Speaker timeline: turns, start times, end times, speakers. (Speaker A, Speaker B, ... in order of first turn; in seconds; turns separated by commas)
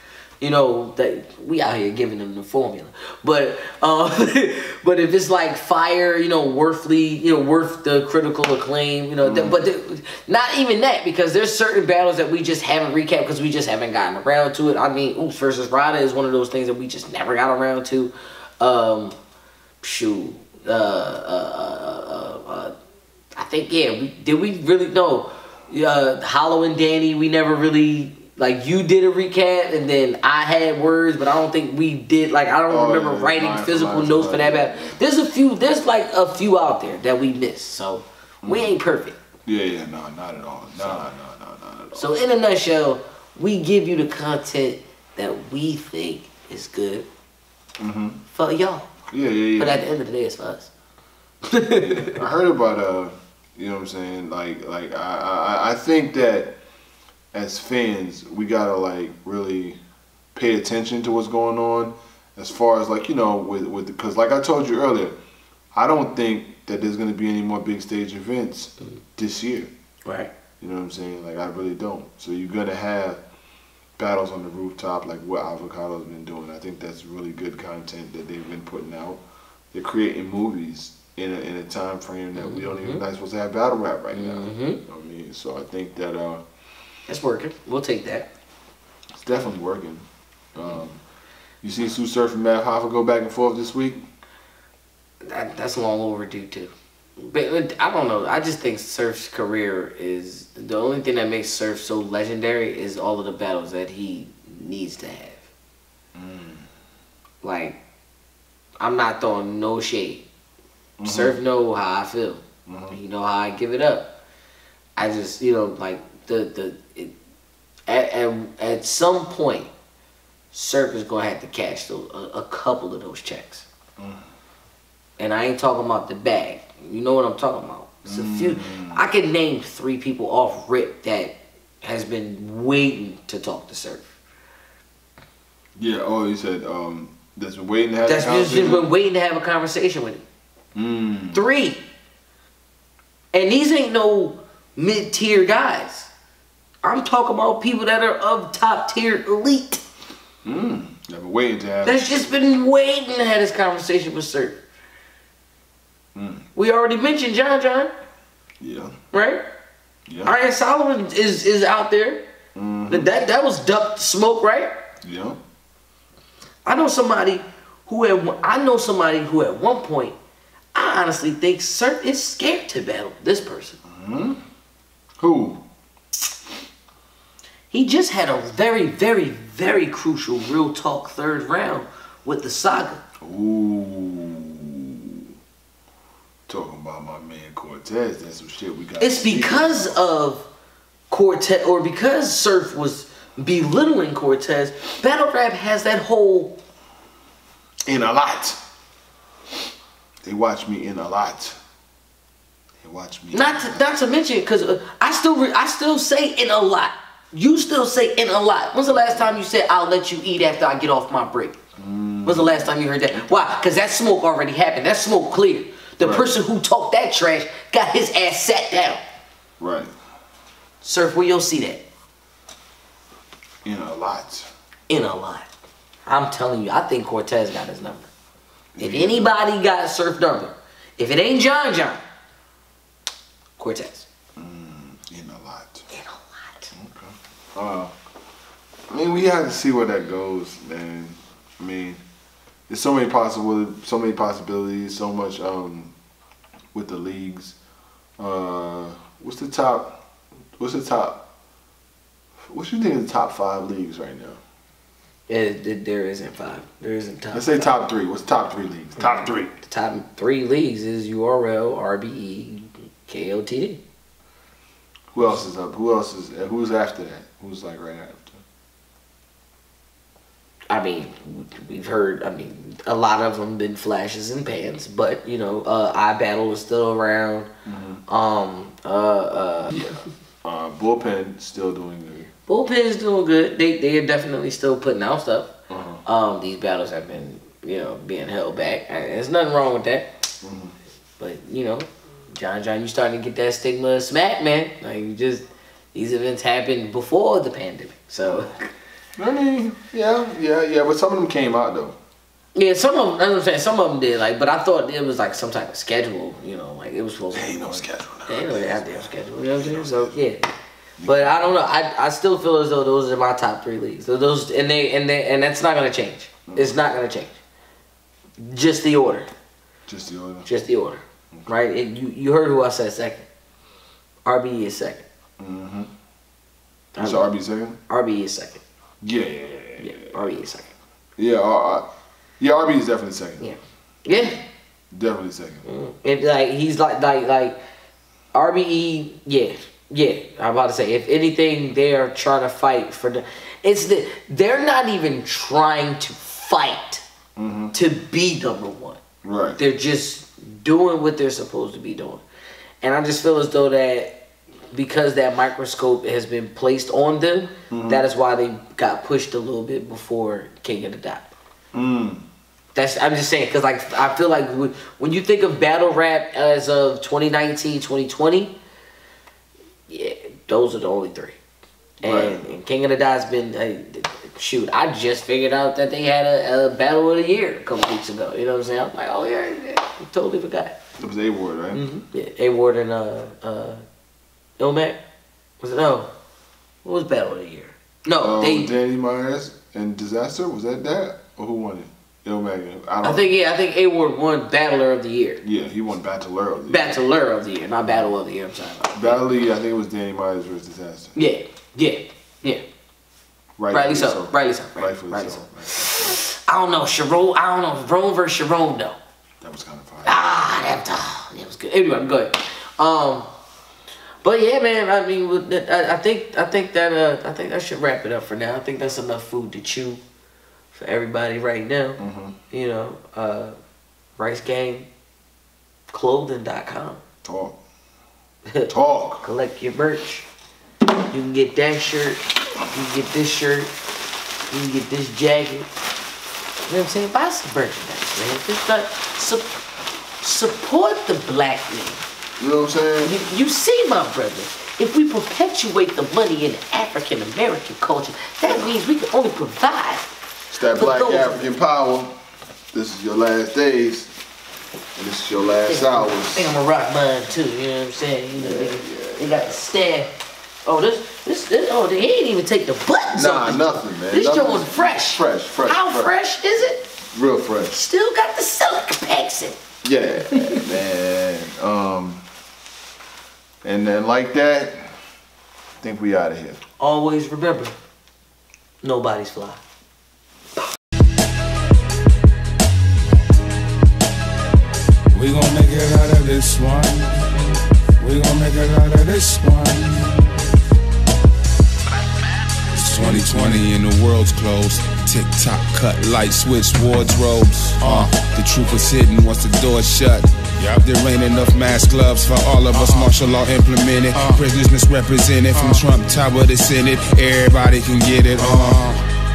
Speaker A: 0.4-19.1, Speaker B: 9.2-9.6, Speaker A: 19.8-22.7, Speaker A: 23.3-39.1, Speaker B: 32.7-35.0, Speaker B: 38.4-38.8, Speaker B: 39.5-42.1, Speaker A: 41.9-47.1, Speaker B: 47.8-48.2, Speaker A: 48.3-48.9, Speaker B: 49.1-49.8, Speaker A: 49.6-50.7, Speaker A: 51.4-52.3, Speaker B: 51.8-56.6, Speaker B: 57.3-59.8, Speaker B: 60.3-65.2, Speaker B: 65.7-69.7, Speaker A: 70.0-70.3, Speaker B: 70.6-73.2, Speaker B: 74.0-86.4, Speaker A: 82.4-83.0, Speaker A: 84.1-84.8, Speaker A: 87.1-88.3, Speaker B: 89.1-91.0, Speaker B: 91.6-94.0, Speaker A: 95.2-105.4, Speaker B: 106.1-106.6, Speaker A: 107.4-107.8, Speaker A: 108.8-110.2, Speaker B: 111.0-111.4, Speaker A: 111.0-114.1, Speaker B: 112.7-113.0, Speaker A: 115.0-117.1, Speaker A: 117.9-119.7, Speaker A: 120.5-123.7, Speaker B: 124.0-124.2, Speaker A: 125.2-134.1, Speaker B: 128.1-129.0, Speaker B: 135.8-138.9, Speaker A: 138.0-140.2, Speaker B: 140.7-141.4, Speaker A: 141.3-141.8, Speaker A: 143.3-146.1, Speaker A: 146.8-149.8, Speaker B: 150.4-152.1, Speaker A: 151.8-154.6, Speaker B: 156.1-156.4, Speaker A: 156.5-157.9, Speaker B: 158.6-158.9, Speaker A: 159.1-159.5, Speaker B: 160.1-160.3, Speaker A: 160.2-162.2, Speaker B: 162.5-163.1, Speaker A: 162.9-164.7, Speaker B: 165.0-165.4, Speaker A: 166.6-170.2, Speaker A: 170.7-173.8, Speaker B: 173.9-174.4, Speaker B: 175.2-175.6, Speaker A: 177.7-183.0, Speaker B: 183.2-185.3, Speaker B: 186.5-190.0, Speaker A: 189.0-190.4, Speaker A: 191.1-196.6, Speaker B: 197.8-198.6, Speaker B: 200.2-201.6, Speaker B: 202.8-203.7, Speaker A: 203.3-211.6, Speaker B: 208.9-209.4, Speaker B: 211.8-213.2, Speaker A: 212.2-219.0, Speaker B: 216.0-216.3, Speaker B: 219.6-219.9, Speaker A: 220.8-221.8, Speaker B: 223.6-224.5, Speaker A: 224.9-225.5, Speaker A: 226.1-228.1, Speaker B: 228.8-229.4, Speaker A: 228.8-232.0, Speaker A: 233.6-234.1, Speaker B: 234.4-235.9, Speaker A: 235.9-236.7, Speaker B: 236.7-237.9, Speaker B: 238.9-242.0, Speaker B: 242.7-245.9, Speaker B: 246.7-247.6, Speaker B: 248.2-250.0, Speaker B: 250.6-251.3, Speaker B: 252.4-254.4, Speaker A: 255.3-257.7, Speaker B: 257.3-259.5, Speaker A: 259.6-263.8, Speaker B: 265.1-268.4, Speaker A: 270.7-277.5, Speaker B: 277.6-278.0, Speaker A: 278.1-279.9, Speaker B: 279.7-282.3, Speaker A: 282.5-285.5, Speaker B: 285.7-286.0, Speaker A: 286.0-290.1, Speaker B: 290.4-290.7, Speaker A: 291.2-298.6, Speaker B: 299.2-301.9, Speaker A: 302.5-310.4, Speaker B: 307.3-310.2, Speaker B: 311.0-311.5, Speaker A: 311.0-317.4, Speaker B: 316.5-316.8, Speaker A: 318.4-319.3, Speaker B: 319.9-320.5, Speaker A: 320.4-323.2, Speaker A: 324.2-325.1, Speaker B: 325.4-325.9, Speaker A: 326.9-327.2, Speaker B: 326.9-327.8, Speaker A: 327.9-328.6, Speaker B: 329.0-330.1, Speaker A: 329.8-330.7, Speaker B: 331.2-331.9, Speaker B: 332.4-333.5, Speaker A: 333.4-334.4, Speaker B: 334.1-334.4, Speaker B: 334.9-335.6, Speaker A: 335.6-337.6, Speaker A: 338.3-347.0, Speaker B: 347.4-347.7, Speaker A: 347.7-349.0, Speaker B: 349.2-349.6, Speaker A: 349.6-352.2, Speaker A: 352.8-354.2, Speaker A: 354.7-361.3, Speaker B: 357.7-358.0, Speaker B: 361.7-362.2, Speaker A: 362.7-368.6, Speaker A: 369.9-371.4, Speaker B: 372.0-372.4, Speaker A: 372.0-380.8, Speaker B: 381.0-381.9, Speaker A: 381.7-383.8, Speaker A: 384.6-385.0, Speaker A: 385.6-386.1, Speaker A: 386.8-388.7, Speaker B: 388.2-393.3, Speaker A: 393.0-395.4, Speaker B: 395.4-397.0, Speaker A: 396.7-399.2, Speaker B: 398.9-401.1, Speaker A: 401.1-402.6, Speaker B: 403.6-406.2, Speaker A: 403.7-409.0, Speaker B: 409.4-410.2, Speaker A: 410.0-413.3, Speaker A: 414.2-420.0, Speaker A: 420.7-423.6, Speaker B: 422.0-422.4, Speaker A: 424.2-424.9, Speaker A: 425.9-427.0, Speaker B: 427.2-427.6, Speaker B: 428.7-429.2, Speaker A: 429.2-430.3, Speaker A: 431.1-433.7, Speaker A: 434.5-435.7, Speaker A: 436.7-439.4, Speaker A: 440.2-442.0, Speaker B: 442.4-443.1, Speaker A: 443.0-450.1, Speaker B: 448.4-448.7, Speaker B: 450.5-452.2, Speaker A: 450.7-451.5, Speaker B: 452.7-454.1, Speaker B: 454.9-456.5, Speaker A: 455.7-466.9, Speaker B: 458.4-459.6, Speaker B: 463.1-466.1, Speaker B: 467.1-467.8, Speaker A: 467.7-469.6, Speaker B: 469.8-472.2, Speaker A: 470.3-470.6, Speaker B: 473.6-475.0, Speaker B: 475.8-476.6, Speaker A: 476.8-477.7, Speaker A: 478.8-479.6, Speaker C: 485.1-487.4, Speaker C: 488.0-490.3, Speaker C: 492.7-509.0